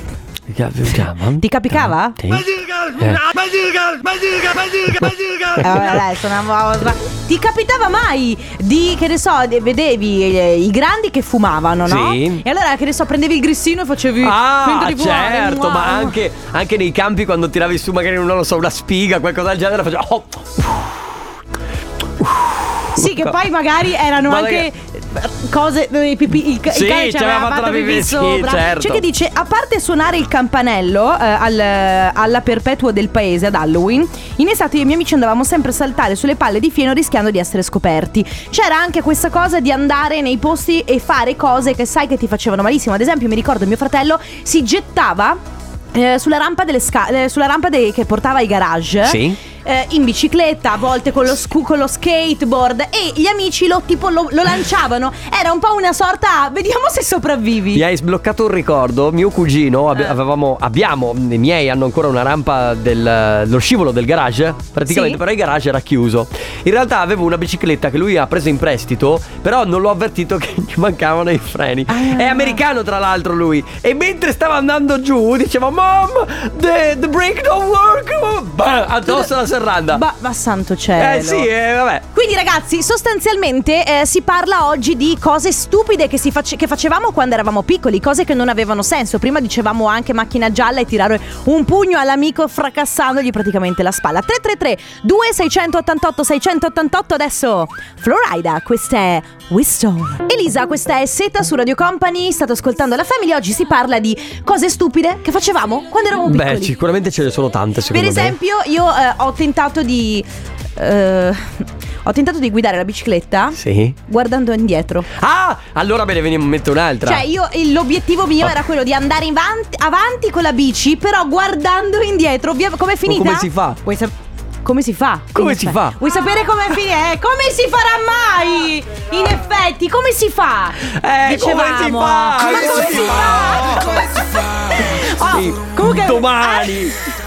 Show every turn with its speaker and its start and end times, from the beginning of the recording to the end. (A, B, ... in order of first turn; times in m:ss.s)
0:00.5-0:06.0 A
0:01.4-0:02.2 B
0:05.6-0:16.2 B
0:11.8-0:12.4 A
0:14.2-0:20.9 A
0:22.2-0:23.4 A
0:23.0-0:45.4 B
0:24.2-0:24.7 A
0:26.7-0:29.0 A
0:45.9-0:57.8 B
0:49.0-0:49.4 A
0:57.7-1:20.0 A
1:04.9-1:05.2 B
1:11.9-1:12.6 B
1:19.0-1:19.3 B
1:19.9-1:21.5 B
1:21.0-1:22.0 A
1:22.1-1:46.8 B
1:46.2-1:48.4 A
1:47.9-1:55.1 B
1:53.6-1:54.0 A
1:55.1-1:57.2 A
1:57.0-2:04.1 B
2:03.1-2:03.8 A
2:04.6-2:16.8 B
2:05.3-2:06.0 A
2:10.8-2:14.0 A
2:15.2-2:17.0 A